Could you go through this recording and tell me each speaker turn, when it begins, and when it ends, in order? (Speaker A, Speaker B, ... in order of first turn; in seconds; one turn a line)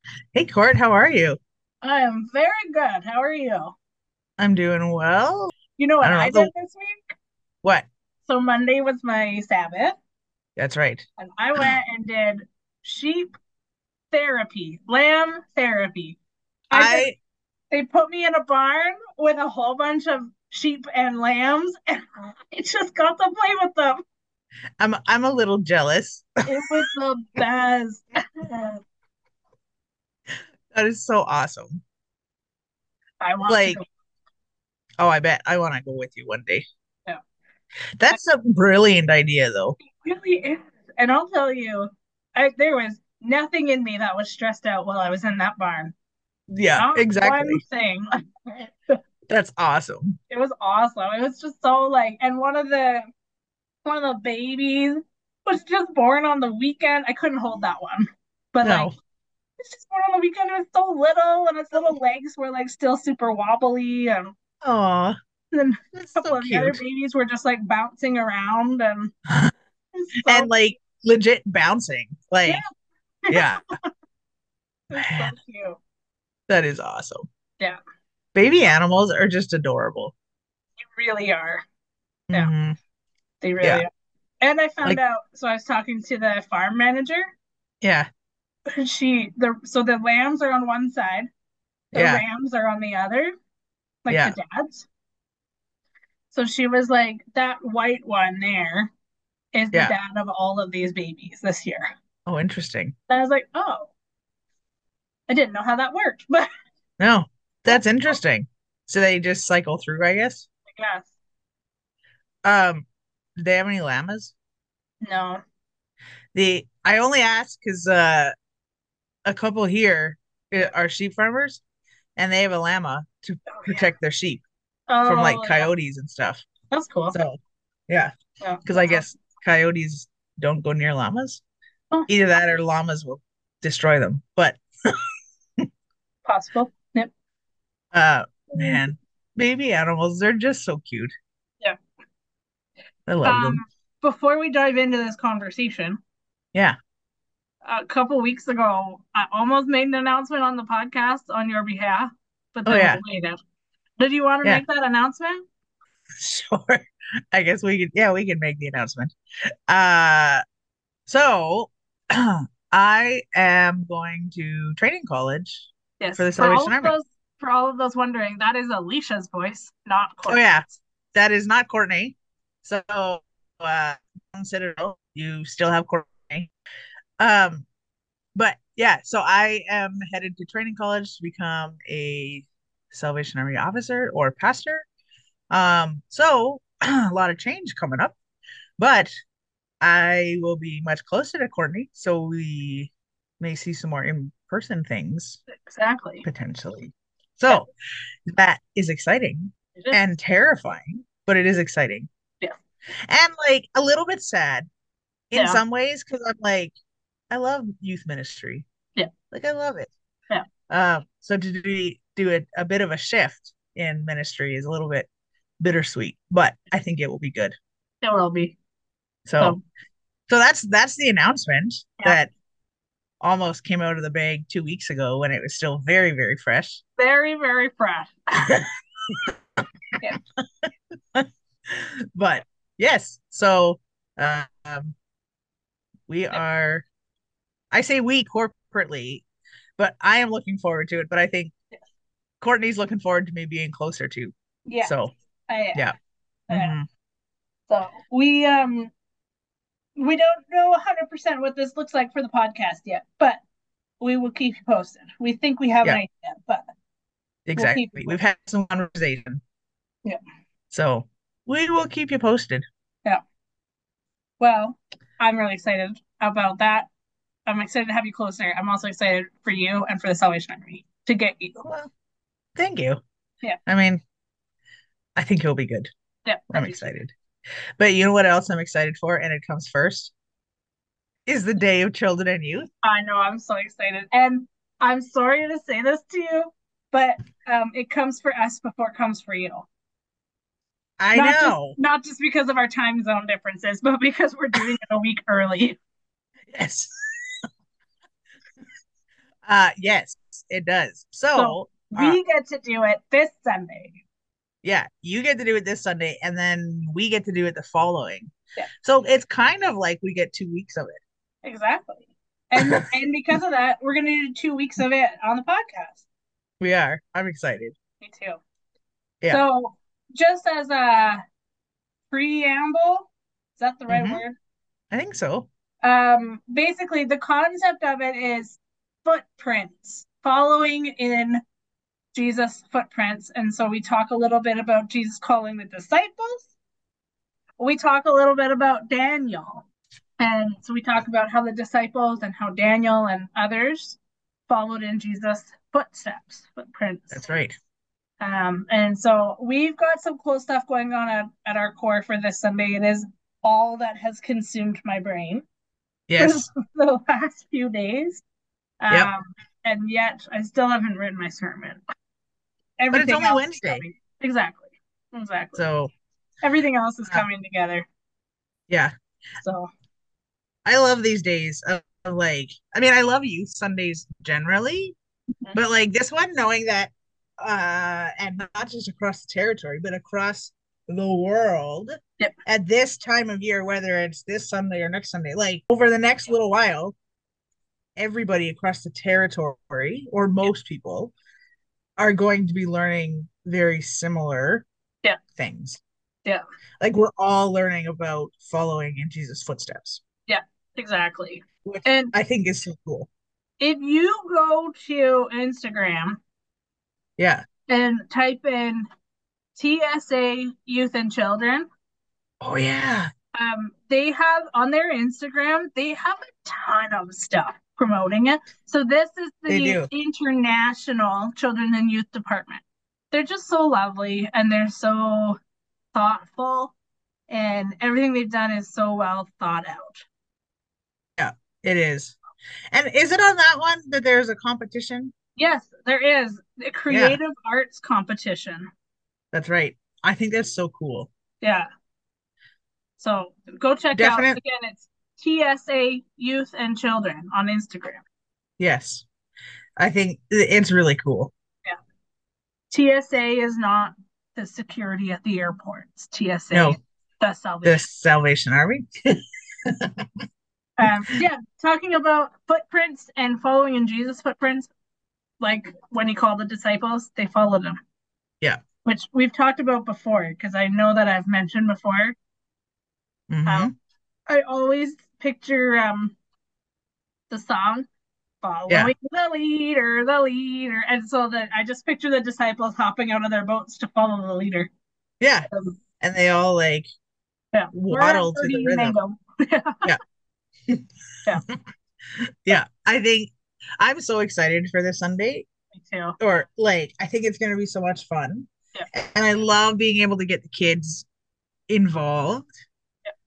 Speaker A: 0.3-1.4
Speaker B: 1.8-3.7
Speaker A: 4.4-6.5
Speaker B: 5.8-7.1
Speaker B: 8.2-9.9
Speaker A: 10.6-11.0
Speaker B: 11.2-13.3
Speaker B: 14.1-16.2
Speaker B: 16.7-17.1
Speaker A: 16.7-17.1
Speaker B: 17.7-24.0
Speaker A: 24.8-26.4
Speaker B: 26.5-28.8
Speaker A: 30.7-31.8
Speaker B: 33.2-33.8
Speaker A: 33.5-33.8
Speaker A: 35.0-36.6
Speaker A: 38.0-39.8
Speaker B: 39.8-45.9
Speaker A: 46.5-47.6
Speaker B: 46.8-49.0
Speaker A: 49.3-50.2
Speaker B: 50.3-53.1
Speaker B: 53.8-58.9
Speaker A: 58.6-59.0
Speaker B: 59.6-64.3
Speaker A: 64.6-65.2
Speaker B: 65.5-69.1
Speaker A: 65.9-66.8
Speaker B: 69.9-70.5
Speaker A: 70.2-72.6
Speaker B: 73.3-73.5
Speaker A: 73.3-73.7
Speaker B: 74.9-75.8
Speaker A: 75.0-75.3
Speaker A: 76.5-77.2
Speaker A: 78.3-80.1
Speaker B: 80.8-81.6
Speaker A: 82.3-82.8
Speaker B: 83.4-83.9
Speaker B: 84.4-87.3
Speaker A: 87.8-88.1
Speaker B: 88.8-91.3
Speaker B: 91.9-93.3
Speaker A: 91.9-92.2
Speaker B: 94.0-94.9
Speaker A: 94.1-94.3
Speaker B: 96.3-98.9
Speaker B: 99.5-101.9
Speaker A: 102.3-102.9
Speaker B: 103.1-103.9
Speaker B: 105.3-106.5
Speaker A: 107.0-110.5
Speaker B: 107.7-108.1
Speaker B: 110.7-111.1
Speaker A: 112.4-112.8
Speaker A: 113.4-114.3
Speaker B: 115.0-115.4
Speaker A: 116.3-118.3
Speaker A: 119.2-121.6
Speaker A: 122.2-124.4
Speaker B: 123.5-123.9
Speaker B: 124.9-125.7
Speaker A: 125.0-126.4
Speaker B: 126.7-127.2
Speaker A: 127.1-127.4
Speaker B: 128.4-129.0
Speaker A: 128.7-131.4
Speaker A: 132.1-134.6
Speaker B: 136.2-137.1
Speaker A: 137.9-141.1
Speaker B: 138.5-138.8
Speaker A: 143.1-143.6
Speaker B: 143.2-146.0
Speaker B: 147.6-153.4
Speaker A: 152.7-153.0
Speaker B: 154.0-155.4
Speaker A: 156.2-159.1
Speaker A: 159.7-160.4
Speaker A: 161.1-166.9
Speaker B: 166.0-170.7
Speaker A: 170.3-176.5
Speaker A: 177.2-177.7
Speaker A: 178.3-184.8
Speaker A: 185.5-188.1
Speaker A: 188.8-189.1
Speaker A: 189.8-195.4
Speaker B: 195.5-196.2
Speaker A: 196.2-197.7
Speaker A: 198.3-202.1
Speaker A: 203.1-204.7
Speaker A: 205.3-206.8
Speaker B: 205.3-205.6
Speaker A: 207.3-208.7
Speaker A: 209.3-209.9
Speaker A: 210.7-215.1
Speaker A: 215.6-217.6
Speaker B: 218.0-218.6
Speaker A: 219.2-219.6
Speaker A: 220.3-222.3
Speaker A: 223.2-226.8
Speaker B: 227.0-228.6
Speaker A: 230.6-234.9
Speaker A: 236.1-236.8
Speaker A: 237.7-239.2
Speaker A: 239.8-241.5
Speaker A: 242.4-245.1
Speaker B: 244.7-244.9
Speaker B: 245.5-245.9
Speaker B: 246.5-246.7
Speaker A: 246.5-246.8
Speaker B: 247.7-248.9
Speaker B: 250.0-253.4
Speaker B: 254.0-256.6
Speaker A: 257.4-259.4
Speaker B: 257.6-258.2
Speaker A: 260.7-262.6
Speaker B: 264.4-266.9
Speaker B: 267.4-271.7
Speaker A: 271.6-271.9
Speaker A: 272.6-273.0
Speaker A: 273.7-274.0
Speaker A: 275.1-275.9
Speaker B: 276.2-276.9
Speaker A: 276.5-277.1
Speaker A: 277.8-280.1
Speaker A: 281.3-282.7
Speaker B: 282.8-289.7
Speaker A: 291.0-291.7
Speaker B: 291.1-295.8
Speaker A: 296.5-296.9
Speaker A: 299.4-302.2
Speaker B: 301.3-304.0
Speaker A: 304.6-308.3
Speaker A: 308.8-311.0
Speaker B: 311.4-316.0
Speaker A: 312.6-312.8
Speaker A: 316.6-317.7
Speaker B: 318.0-318.4
Speaker B: 319.3-321.2
Speaker B: 322.1-324.4
Speaker A: 323.9-324.2
Speaker A: 324.9-325.5
Speaker B: 325.8-331.4
Speaker B: 332.1-336.5
Speaker B: 337.6-339.6
Speaker B: 340.2-347.2
Speaker A: 347.1-347.6
Speaker B: 348.2-355.4
Speaker A: 356.1-356.5
Speaker B: 356.2-358.2
Speaker B: 358.8-361.8
Speaker B: 362.8-365.6
Speaker A: 362.9-363.8
Speaker A: 365.6-365.9
Speaker B: 366.4-367.9
Speaker B: 369.4-369.7
Speaker A: 370.6-374.9
Speaker A: 375.5-386.9
Speaker A: 388.0-391.1
Speaker A: 392.0-394.6
Speaker A: 395.4-395.8
Speaker A: 396.8-400.0
Speaker B: 400.3-402.1
Speaker A: 401.6-403.1
Speaker B: 403.6-406.2
Speaker A: 407.2-407.4
Speaker B: 407.7-408.8
Speaker B: 409.6-411.6
Speaker A: 412.4-413.1
Speaker B: 413.4-425.4
Speaker A: 419.5-419.9
Speaker B: 425.9-426.7
Speaker B: 427.3-430.0
Speaker A: 431.2-432.1
Speaker A: 432.7-435.1
Speaker B: 435.4-438.7
Speaker A: 436.9-437.2
Speaker A: 439.3-441.1
Speaker B: 441.4-441.7
Speaker B: 443.0-448.0
Speaker A: 443.9-444.4
Speaker A: 448.6-449.0
Speaker A: 449.8-451.3
Speaker B: 452.7-457.8
Speaker A: 456.5-456.8
Speaker A: 457.6-460.0
Speaker B: 460.8-464.7
Speaker B: 465.4-467.8
Speaker B: 468.8-472.1
Speaker A: 473.3-473.7
Speaker B: 474.3-476.1
Speaker B: 477.3-477.9
Speaker B: 478.4-484.7
Speaker A: 485.2-485.5
Speaker B: 485.5-485.8
Speaker A: 486.0-486.9
Speaker B: 487.5-489.9
Speaker A: 487.7-488.9
Speaker A: 492.4-495.5
Speaker B: 495.7-496.2
Speaker A: 496.2-501.1
Speaker A: 501.7-502.5